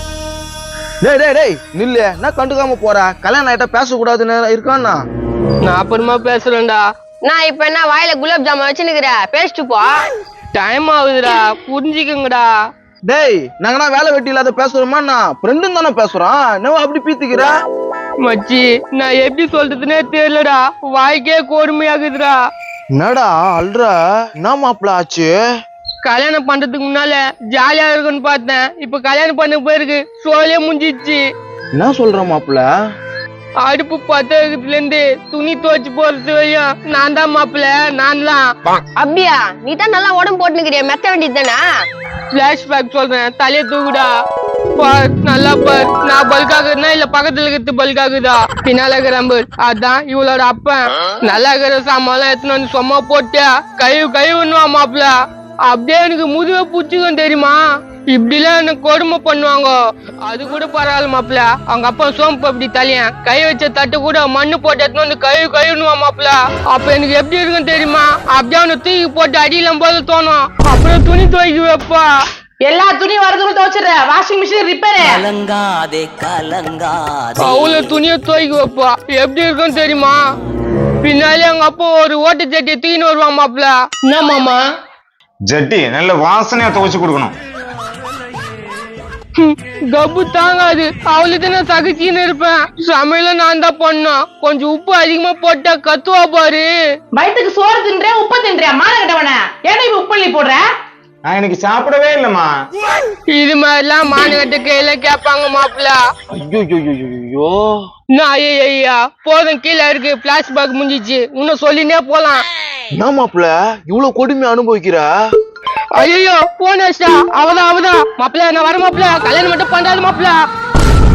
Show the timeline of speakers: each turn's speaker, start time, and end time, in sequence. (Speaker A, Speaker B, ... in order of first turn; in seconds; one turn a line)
Speaker A: 1.0-5.0
Speaker B: 5.6-6.8
Speaker C: 7.3-10.0
Speaker B: 10.5-12.5
Speaker A: 13.1-17.5
Speaker B: 18.2-22.4
Speaker A: 23.0-25.4
Speaker B: 26.1-31.2
Speaker A: 31.8-32.7
Speaker B: 33.6-38.5
Speaker C: 39.0-41.6
Speaker B: 42.3-44.1
Speaker B: 44.8-55.1
Speaker B: 55.7-72.1
Speaker D: 72.6-75.3
Speaker E: 75.0-77.9
Speaker B: 77.4-80.2
Speaker B: 81.0-84.6
Speaker F: 85.5-87.3
Speaker B: 89.4-96.7
Speaker D: 97.1-100.7
Speaker F: 101.3-102.5
Speaker B: 103.3-106.0
Speaker A: 106.3-107.8
Speaker B: 108.1-112.4
Speaker A: 113.0-115.1
Speaker B: 116.0-120.3